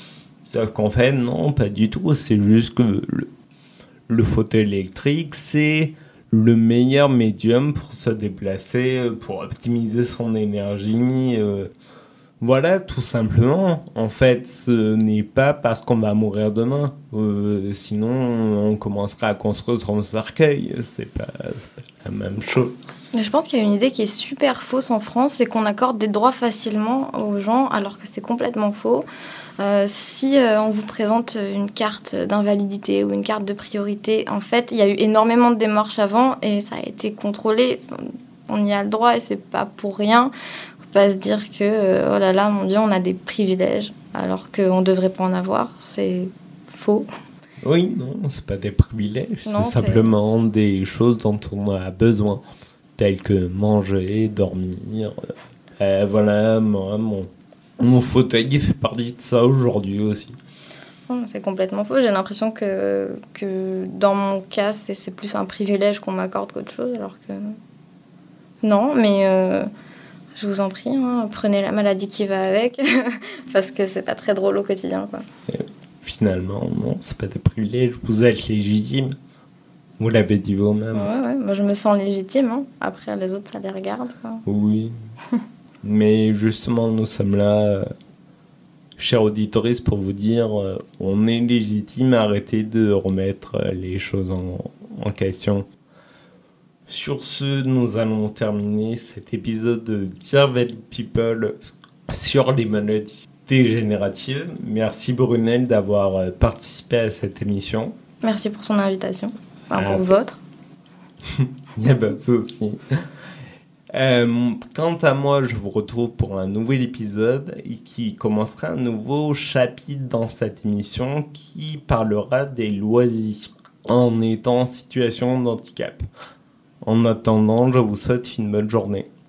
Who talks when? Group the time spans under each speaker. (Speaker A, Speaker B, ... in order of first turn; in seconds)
Speaker A: 0.5-3.3, 4.1-11.7, 12.4-22.7, 47.6-52.4, 53.0-60.4, 75.5-79.1, 80.0-81.1, 84.5-84.9, 85.8-87.9, 89.0-95.6, 96.9-101.6, 102.1-107.9, 109.7-110.1, 111.2-112.8, 113.9-126.0, 126.8-129.1
Speaker B: 23.1-29.1, 29.6-40.3, 40.9-47.1, 49.4-50.1, 61.1-67.6, 68.6-69.7, 70.3-75.2, 80.9-84.4, 108.2-110.4